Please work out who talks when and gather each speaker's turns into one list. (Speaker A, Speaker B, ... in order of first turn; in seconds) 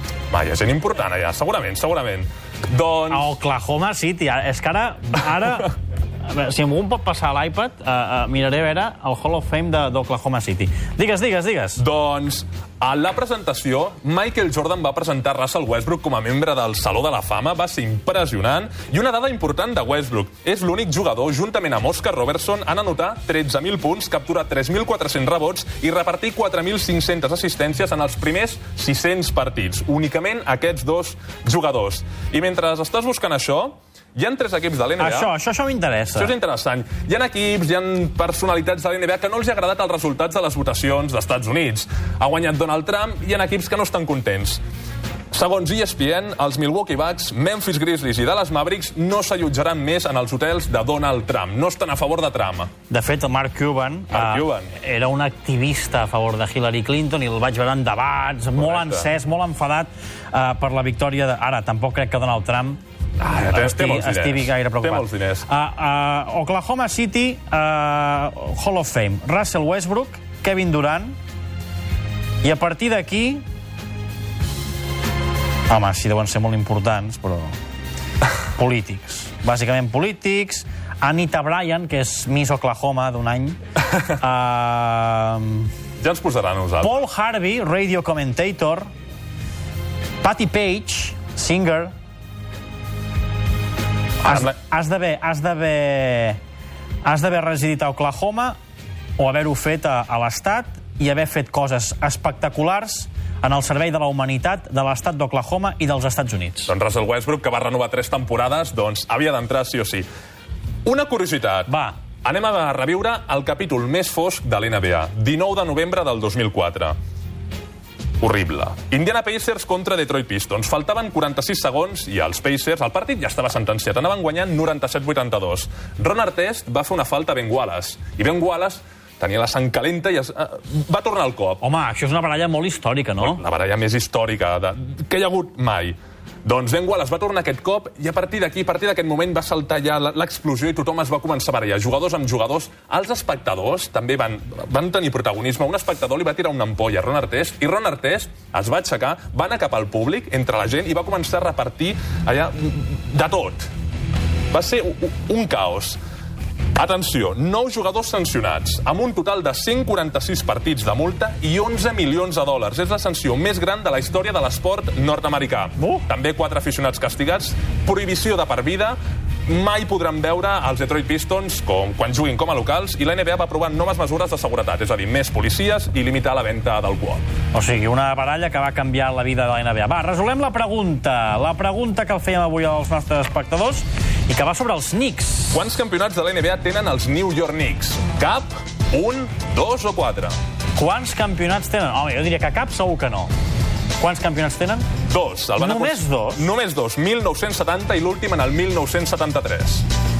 Speaker A: 0.3-3.3, 11.8-35.3, 36.2-44.6, 45.3-52.7, 54.1-54.7, 58.6-59.1, 63.2-65.5, 86.0-86.9, 94.2-94.5, 106.7-110.1, 110.8-111.7, 112.2-117.0, 118.2-131.6, 133.2-153.7, 154.5-156.0, 156.8-177.2, 185.5-190.4, 195.1-199.9
Speaker B: 3.1-11.8, 35.0-36.3, 52.9-62.8, 63.4-71.2, 72.4-73.4, 75.7-77.6, 78.6-85.7, 86.8-88.9, 90.2-91.9, 94.2-96.4, 97.0-98.6, 99.2-106.7, 111.7-112.0, 131.6-133.4, 165.8-166.1, 177.5-185.6, 190.8-193.3, 194.0-194.9, 195.6-196.5